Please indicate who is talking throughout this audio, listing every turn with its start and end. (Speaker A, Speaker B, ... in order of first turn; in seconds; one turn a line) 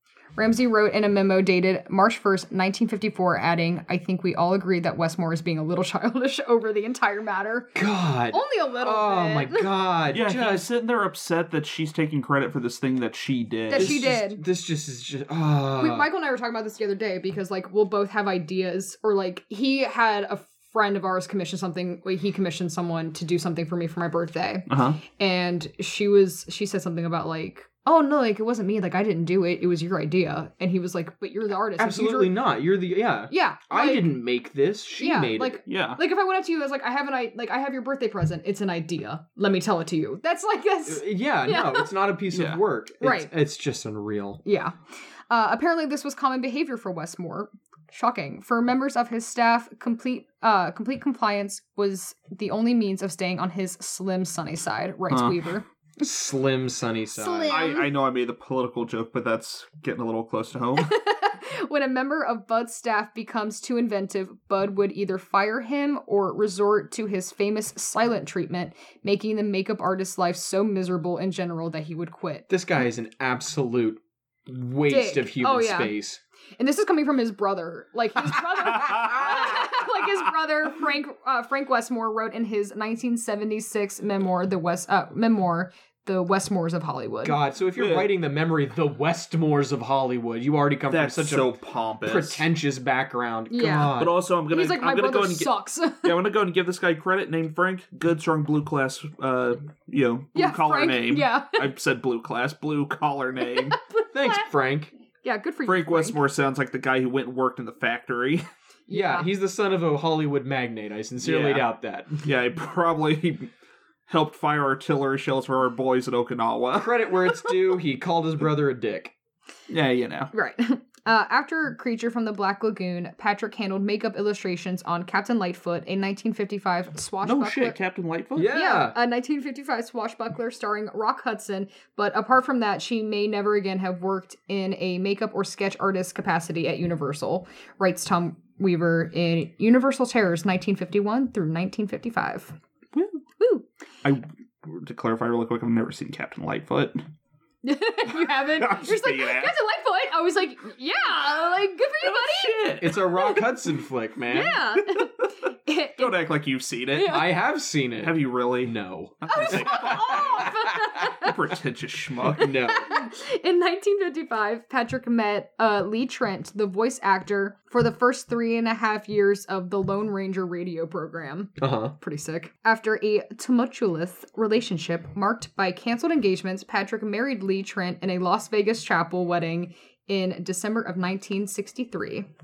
Speaker A: 0.3-7.7
Speaker B: 7.7-10.7
Speaker A: 8.3-9.7
Speaker C: 10.1-14.0
Speaker A: 13.7-14.4
Speaker B: 13.7-16.1
Speaker A: 15.8-32.3
Speaker C: 24.7-25.0
Speaker B: 31.8-35.6
Speaker A: 33.3-34.1
Speaker A: 35.0-41.9
Speaker C: 35.7-36.0
Speaker B: 40.9-44.4
Speaker C: 42.3-42.6
Speaker A: 43.0-43.3
Speaker A: 44.4-44.8
Speaker A: 45.3-55.6
Speaker C: 55.1-55.4
Speaker B: 56.0-57.6
Speaker A: 57.1-57.9
Speaker C: 57.5-60.9
Speaker A: 60.8-72.5
Speaker B: 72.5-76.2
Speaker A: 74.9-75.9
Speaker A: 76.6-87.4
Speaker B: 79.0-79.6
Speaker B: 87.2-94.2
Speaker C: 87.8-88.1
Speaker C: 90.9-92.5
Speaker A: 93.5-96.2
Speaker C: 93.9-103.8
Speaker A: 100.3-101.7
Speaker A: 103.5-104.5
Speaker B: 104.1-104.9
Speaker A: 105.2-106.2
Speaker C: 105.6-108.4
Speaker A: 108.9-109.2
Speaker B: 108.9-112.3
Speaker C: 111.2-111.7
Speaker C: 112.2-113.5
Speaker C: 114.1-117.1
Speaker B: 116.7-119.1
Speaker C: 119.7-120.3
Speaker A: 120.3-127.8
Speaker C: 127.2-128.6
Speaker B: 128.3-128.9
Speaker A: 128.5-142.6
Speaker C: 142.9-143.2
Speaker A: 143.4-143.7
Speaker C: 144.0-147.0
Speaker A: 147.6-153.6
Speaker C: 148.5-149.6
Speaker C: 152.0-153.0
Speaker B: 152.8-154.8
Speaker A: 154.3-156.2
Speaker C: 156.0-157.3
Speaker A: 156.9-157.3
Speaker B: 157.0-160.9
Speaker C: 158.0-162.8
Speaker A: 159.2-161.3
Speaker B: 162.3-163.0
Speaker A: 162.7-182.3
Speaker B: 171.6-171.9